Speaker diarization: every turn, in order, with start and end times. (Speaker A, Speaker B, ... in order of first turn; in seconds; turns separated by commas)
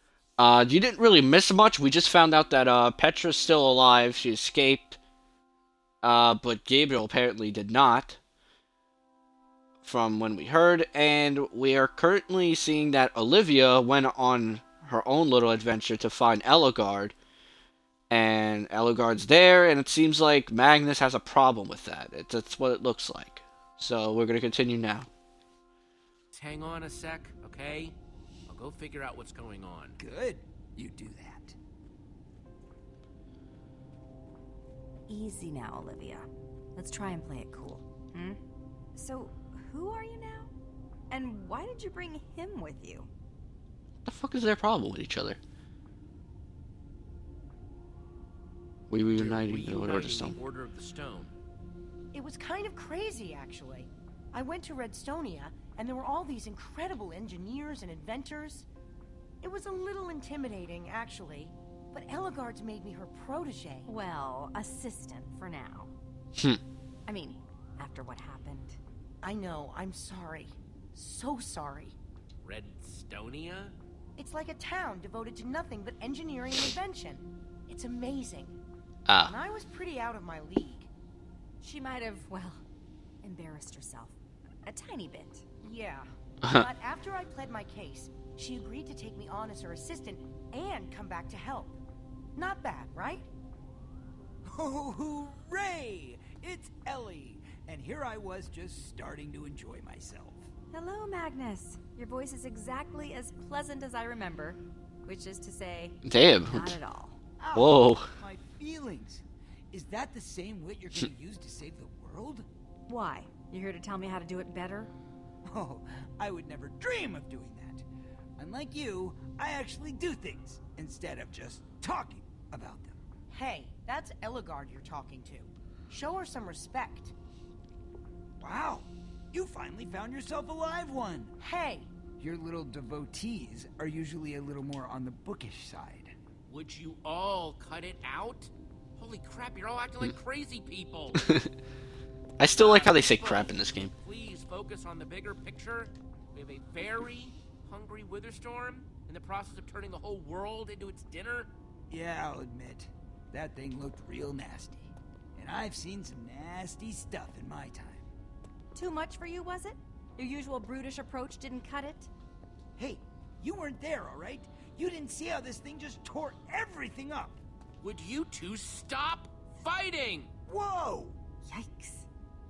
Speaker A: 0.4-5.0, Speaker A: 6.0-8.2, Speaker A: 9.8-17.1, Speaker A: 18.1-25.1, Speaker B: 26.3-27.9, Speaker B: 28.5-30.0, Speaker C: 30.0-31.5, Speaker D: 35.1-38.4, Speaker D: 38.9-40.5, Speaker D: 41.1-43.1, Speaker A: 44.0-45.4, Speaker A: 48.9-50.4, Speaker B: 49.1-51.3, Speaker E: 52.1-58.7, Speaker E: 59.4-63.9, Speaker D: 63.8-65.9, Speaker D: 67.1-68.8, Speaker E: 69.2-71.9, Speaker B: 72.4-73.8, Speaker E: 74.2-78.5, Speaker A: 79.1-79.3, Speaker E: 79.2-80.9, Speaker D: 81.6-82.6, Speaker D: 83.2-85.4, Speaker E: 85.6-91.8, Speaker E: 92.3-93.3, Speaker C: 94.5-100.5, Speaker D: 100.7-107.2, Speaker A: 106.0-106.8, Speaker C: 107.4-112.5, Speaker A: 107.5-108.1, Speaker D: 112.9-114.9, Speaker C: 115.5-117.8, Speaker C: 118.4-123.0, Speaker E: 123.3-127.1, Speaker C: 128.4-131.3, Speaker E: 131.4-131.9, Speaker C: 132.2-136.1, Speaker B: 136.5-141.2, Speaker A: 141.1-141.5, Speaker A: 142.4-143.9, Speaker B: 142.5-151.5, Speaker C: 151.9-158.1, Speaker D: 158.7-162.1, Speaker C: 162.8-167.4, Speaker B: 167.8-170.3, Speaker C: 170.5-171.2, Speaker D: 171.4-172.1